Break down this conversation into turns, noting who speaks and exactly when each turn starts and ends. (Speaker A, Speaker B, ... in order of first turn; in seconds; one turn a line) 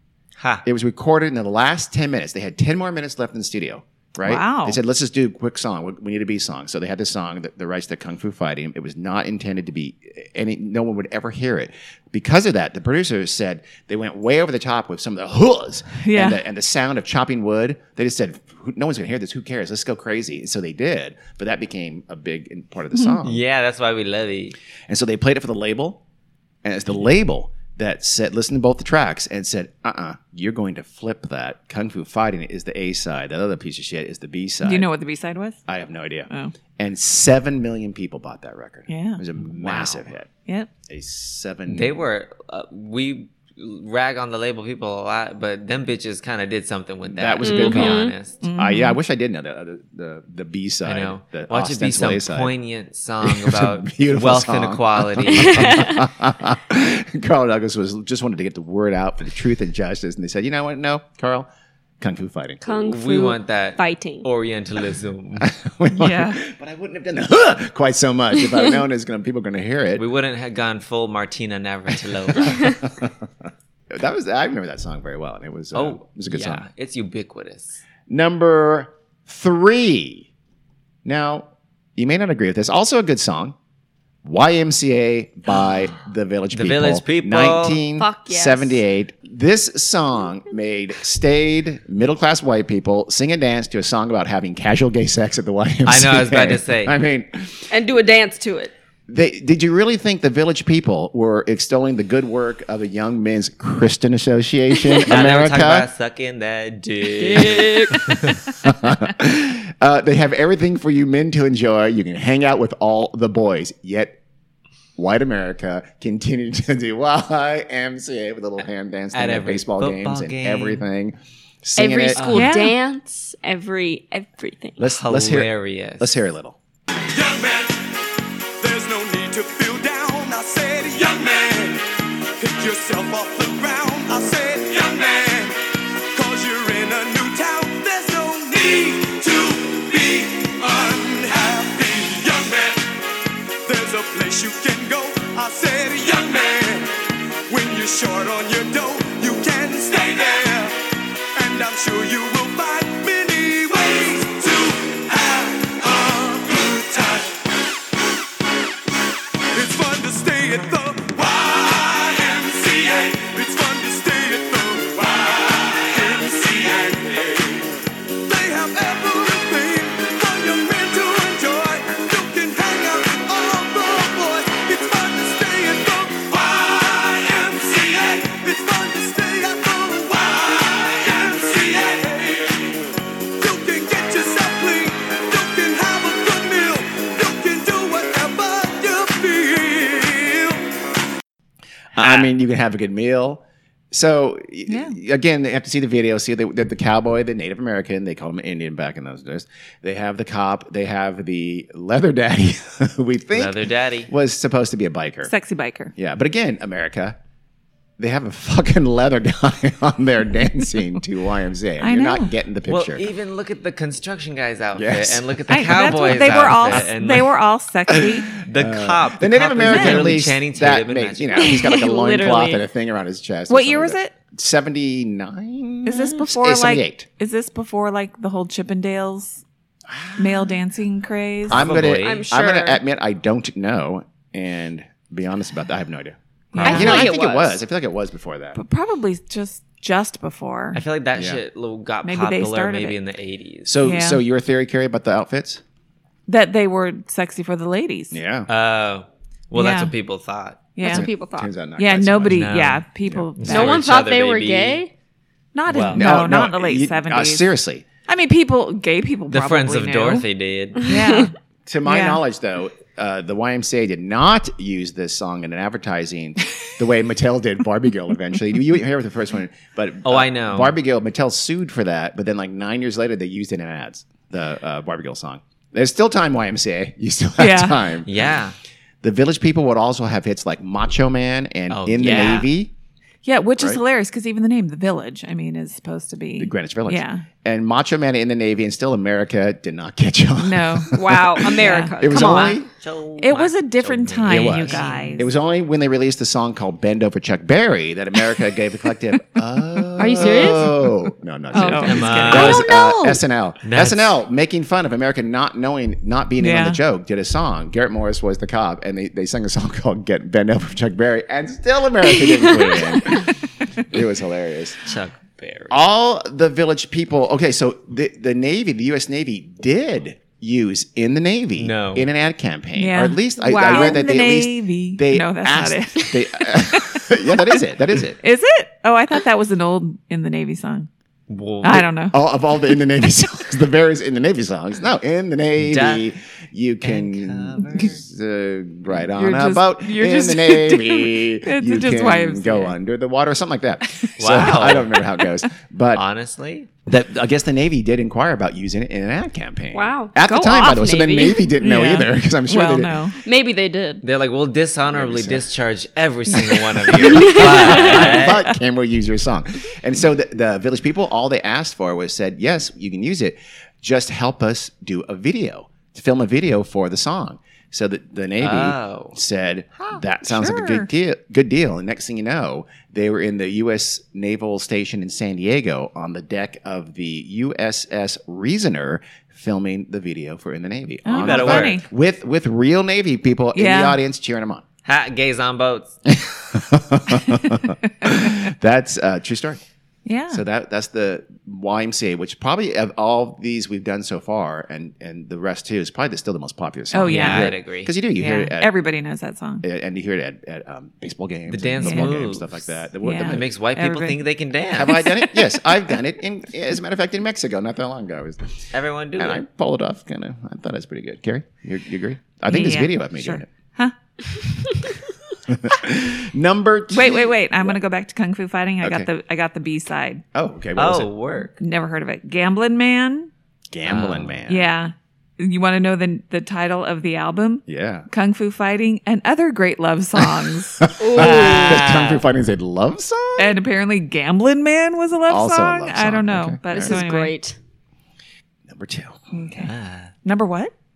Speaker A: 0.4-0.6
Speaker B: 0.6-23.4
Speaker C: 4.2-4.8
Speaker C: 16.0-16.4
Speaker A: 23.2-24.5
Speaker B: 24.9-26.0
Speaker B: 26.6-34.9
Speaker C: 34.6-35.6
Speaker B: 35.7-40.3
Speaker C: 38.9-39.2
Speaker A: 39.5-40.0
Speaker B: 40.9-42.0
Speaker A: 41.7-48.4
Speaker B: 47.1-52.5
Speaker D: 47.4-48.1
Speaker C: 48.4-49.0
Speaker A: 50.8-55.9
Speaker B: 53.2-61.5
Speaker D: 55.4-56.0
Speaker B: 62.0-62.6
Speaker D: 62.6-64.2
Speaker A: 62.7-65.5
Speaker B: 65.4-70.0
Speaker C: 65.9-66.4
Speaker A: 70.0-72.8
Speaker B: 72.3-73.2
Speaker B: 73.9-76.6
Speaker A: 75.7-77.8
Speaker B: 78.1-80.3
Speaker B: 81.0-83.5
Speaker B: 84.2-97.7
Speaker A: 86.5-87.8
Speaker D: 88.0-88.8
Speaker A: 95.8-97.0
Speaker D: 97.7-98.7
Speaker B: 99.1-105.9
Speaker A: 105.0-108.5
Speaker D: 107.2-108.1
Speaker B: 108.6-114.2
Speaker B: 115.0-122.2
Speaker A: 119.1-120.8
Speaker D: 121.8-124.8
Speaker A: 122.1-122.5
Speaker C: 122.3-122.7
Speaker B: 124.8-126.6
Speaker A: 124.9-126.1
Speaker E: 127.1-127.9
Speaker E: 128.6-135.6
Speaker E: 136.1-142.9
Speaker E: 143.7-147.0
Speaker E: 147.5-150.8
Speaker E: 151.3-157.4
Speaker E: 159.5-167.7
Speaker E: 168.2-182.7
Speaker E: 183.4-190.7
Speaker B: 191.9-205.3
Speaker A: 192.0-192.3
Speaker C: 194.7-194.9
Speaker A: 203.3-204.1
Speaker C: 205.2-205.9
Speaker B: 205.9-207.2
Speaker B: 208.0-213.1
Speaker C: 211.8-212.3
Speaker A: 212.7-217.3
Speaker B: 214.7-216.9
Speaker C: 215.5-218.3
Speaker B: 217.9-227.1
Speaker A: 218.4-221.5
Speaker C: 219.6-220.1
Speaker D: 221.4-222.6
Speaker C: 223.5-224.1
Speaker C: 225.8-229.4
Speaker B: 229.9-230.6
Speaker C: 230.2-231.6
Speaker B: 231.5-238.6
Speaker A: 231.5-232.3
Speaker D: 232.0-232.8
Speaker C: 236.5-237.0
Speaker A: 236.6-237.1
Speaker D: 236.6-237.5
Speaker C: 238.5-240.8
Speaker A: 240.7-243.7
Speaker B: 241.1-241.4
Speaker C: 242.0-243.0
Speaker B: 243.6-245.6
Speaker C: 243.8-244.2
Speaker C: 246.3-248.2
Speaker B: 248.1-248.5
Speaker A: 248.5-250.7
Speaker C: 249.5-249.9
Speaker C: 250.8-251.1
Speaker D: 250.8-251.5
Speaker B: 250.8-253.3
Speaker C: 251.8-253.8
Speaker A: 252.3-252.8
Speaker A: 253.4-254.8
Speaker D: 253.5-254.9
Speaker C: 255.5-257.4
Speaker A: 255.7-256.0
Speaker B: 255.9-257.8
Speaker C: 258.1-260.2
Speaker A: 259.3-260.9
Speaker C: 260.8-261.3
Speaker D: 260.8-261.3
Speaker B: 261.6-278.4
Speaker C: 261.8-262.2
Speaker A: 270.0-270.8
Speaker C: 277.4-277.8
Speaker A: 278.1-278.5
Speaker B: 279.0-282.7
Speaker A: 281.7-282.5
Speaker D: 282.1-282.3
Speaker C: 283.2-287.2
Speaker B: 286.4-292.7
Speaker C: 290.4-291.0
Speaker D: 290.9-292.6
Speaker C: 291.6-292.0
Speaker A: 292.3-295.3
Speaker C: 293.2-295.3
Speaker B: 294.2-314.9
Speaker D: 300.0-300.7
Speaker C: 300.2-300.5
Speaker C: 301.5-303.2
Speaker D: 301.5-302.5
Speaker A: 301.8-302.7
Speaker A: 303.6-304.2
Speaker C: 306.4-306.8
Speaker A: 314.8-315.8
Speaker B: 315.7-328.2
Speaker A: 321.6-322.1
Speaker C: 322.8-327.6
Speaker D: 323.4-324.0
Speaker C: 328.2-330.9
Speaker A: 331.3-331.9
Speaker C: 331.6-332.2
Speaker B: 332.1-346.0
Speaker A: 335.6-336.1
Speaker A: 336.8-338.0
Speaker C: 339.2-342.8
Speaker A: 344.2-345.0
Speaker A: 345.9-346.7
Speaker B: 346.9-353.1
Speaker D: 349.7-351.4
Speaker C: 351.6-353.2
Speaker D: 353.2-354.0
Speaker A: 354.0-358.4
Speaker B: 354.9-355.4
Speaker B: 356.9-384.6
Speaker D: 357.1-358.1
Speaker A: 368.4-369.1
Speaker C: 370.2-370.9
Speaker C: 381.0-381.9
Speaker A: 381.2-381.8
Speaker C: 383.5-384.0
Speaker A: 384.9-385.9
Speaker B: 386.1-389.6
Speaker C: 390.1-390.4
Speaker B: 390.3-398.8
Speaker C: 396.9-397.5
Speaker A: 397.0-397.9
Speaker C: 398.1-399.6
Speaker B: 399.6-403.5
Speaker A: 401.5-402.7
Speaker C: 401.8-402.1
Speaker C: 403.0-404.2
Speaker A: 403.2-405.1
Speaker B: 404.7-408.4
Speaker A: 408.7-409.4
Speaker B: 409.2-413.5
Speaker C: 412.5-413.9
Speaker B: 415.5-417.8
Speaker C: 416.9-420.2
Speaker B: 418.8-419.1
Speaker B: 420.3-421.1
Speaker A: 420.8-421.6
Speaker C: 421.6-423.3
Speaker B: 423.7-424.7
Speaker A: 423.8-424.3
Speaker C: 424.5-430.8
Speaker B: 427.7-428.1
Speaker B: 430.2-433.6
Speaker D: 431.0-431.8
Speaker A: 431.1-432.2
Speaker C: 433.4-437.3
Speaker B: 435.3-437.0
Speaker D: 436.7-437.6
Speaker B: 438.7-439.2
Speaker C: 439.3-439.7
Speaker A: 439.6-440.1
Speaker C: 440.2-440.7